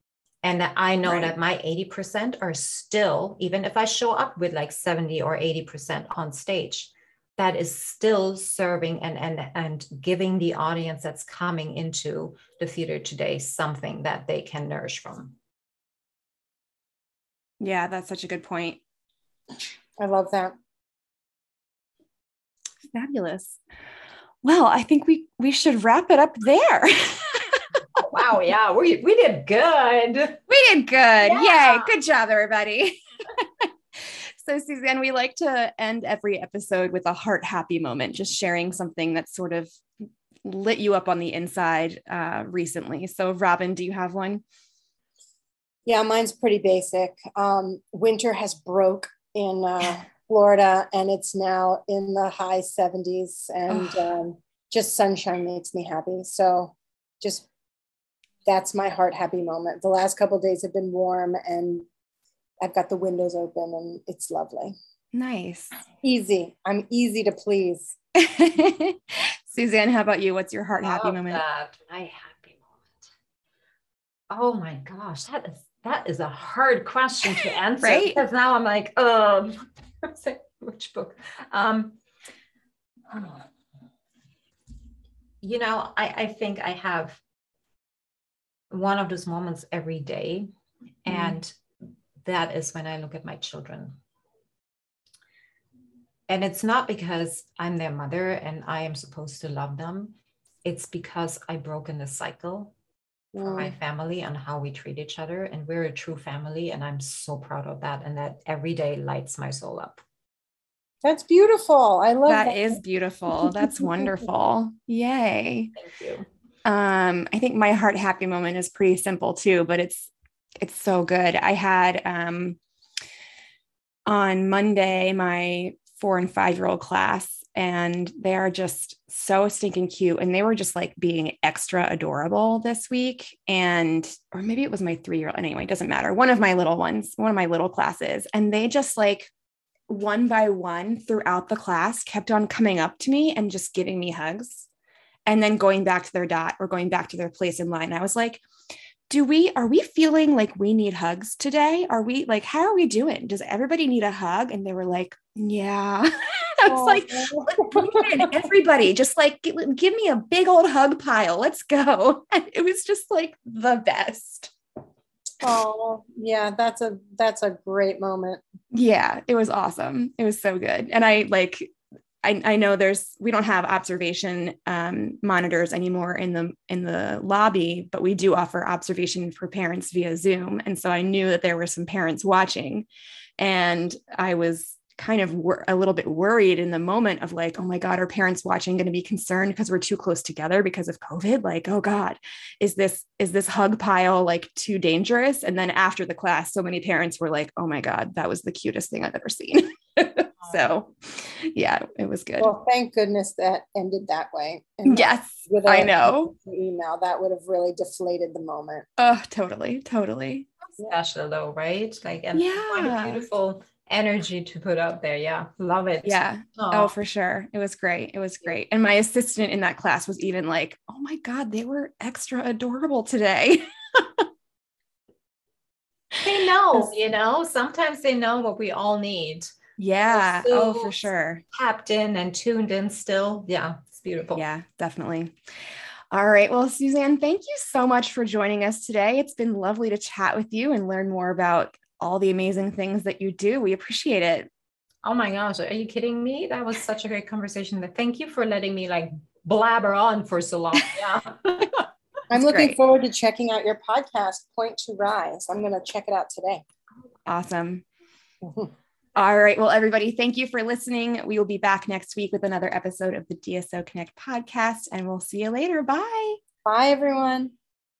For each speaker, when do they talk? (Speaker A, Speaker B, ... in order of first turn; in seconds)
Speaker A: 0.4-15.4, 28.0-30.4, 31.2-31.9, 70.8-73.0, 74.3-82.0, 83.1-83.5, 85.4-87.2, 88.7-90.5, 91.0-91.5, 92.2-94.0, 96.3-102.7, 103.3-110.0, 115.8-116.3, 210.8-216.9, 226.2-229.6, 230.1-231.0, 231.5-234.4, 245.0-251.9
Speaker B: 17.6-18.8, 22.9-23.6, 24.4-27.6, 30.5-33.4, 34.1-39.8, 40.5-44.4, 53.7-54.1, 65.1-65.8, 68.2-71.4, 77.8-78.2, 91.1-91.4, 112.3-115.7, 116.7-122.6, 124.1-139.3, 139.9-144.7, 145.3-148.4, 149.1-164.5, 168.7-171.7, 172.2-182.9, 183.4-202.5, 204.9-206.3, 209.0-210.5, 212.3-213.2, 216.0-224.3, 229.8-231.4, 234.3-244.5, 252.4-252.8, 257.3-257.9, 259.2-266.4
Speaker C: 20.0-20.6, 45.9-57.5, 58.5-61.9, 62.6-64.8, 66.0-68.0, 103.3-103.7, 111.0-112.8, 113.4-114.1, 156.7-158.3, 165.4-168.4, 202.4-208.9, 252.3-256.6, 258.4-258.7, 266.6-267.5